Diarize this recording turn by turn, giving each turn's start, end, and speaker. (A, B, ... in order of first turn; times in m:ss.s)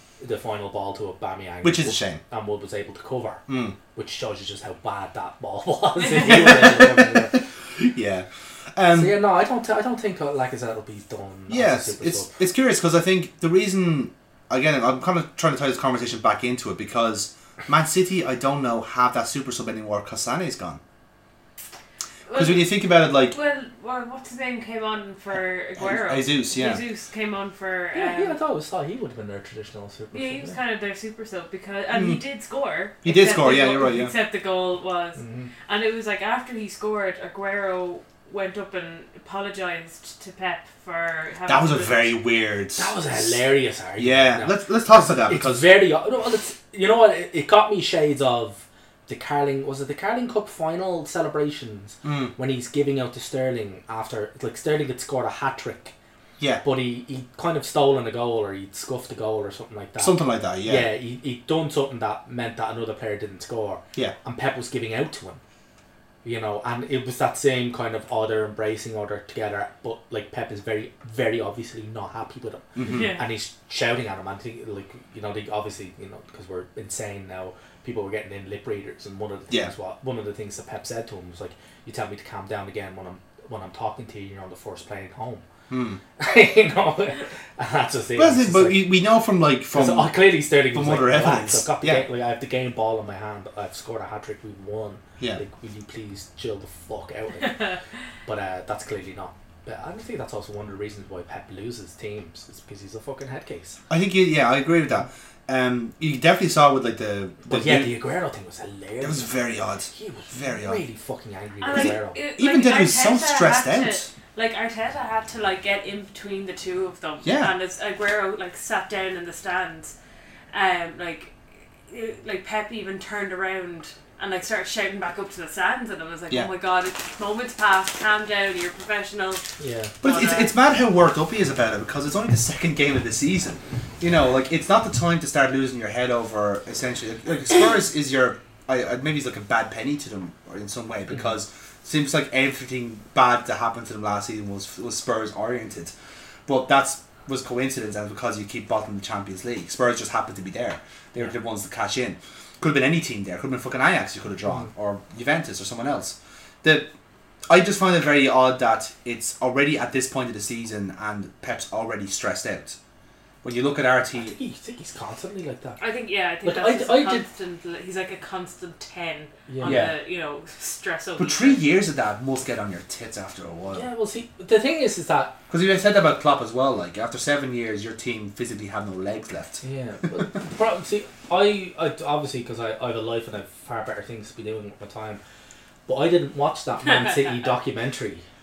0:00.2-0:07.4 A
0:01.6-0:02.2 B
0:03.5-0:03.8 B
0:06.2-0:09.2 B
0:08.9-0:12.4 A
0:11.5-0:20.8 B
0:22.3-0:22.7 C
0:22.3-0:23.4 B
0:23.3-0:28.4 C
0:25.8-0:26.8 B
0:27.9-0:30.6 A
0:30.1-0:42.1 C
0:31.9-0:32.2 B
0:33.0-0:34.1 B
0:35.2-0:35.5 A
0:41.5-0:43.4 B
0:42.8-0:55.9 A
0:44.0-0:45.8 B
0:52.0-0:52.3 B
0:56.6-1:05.4 A
1:00.0-1:00.9 B
1:06.2-1:25.4 A
1:12.7-1:13.1 B
1:12.8-1:13.2 C
1:25.7-1:26.0 B
1:26.2-1:28.9 A
1:28.2-1:30.2 B
1:29.7-1:43.8 A
1:30.7-1:32.0 B
1:43.9-1:47.9 B
1:47.4-1:52.2 A
1:49.0-1:50.8 B
1:51.6-1:59.9 C
1:51.7-1:54.1 B
1:57.2-1:57.5 B
2:00.5-2:09.4 C
2:09.6-2:09.9 A
2:10.0-2:25.9 B
2:10.0-2:10.5 C
2:26.4-2:36.9 B
2:37.5-2:42.8 B
2:43.4-2:44.4 B
2:44.1-2:45.8 A
2:45.8-2:51.7 C
2:46.4-2:47.2 A
2:49.5-2:49.9 A
2:49.6-2:49.9 B
2:51.2-2:53.9 B
2:53.7-2:55.3 A
2:55.5-2:59.6 B
2:59.6-3:05.2 A
3:05.9-3:08.2 A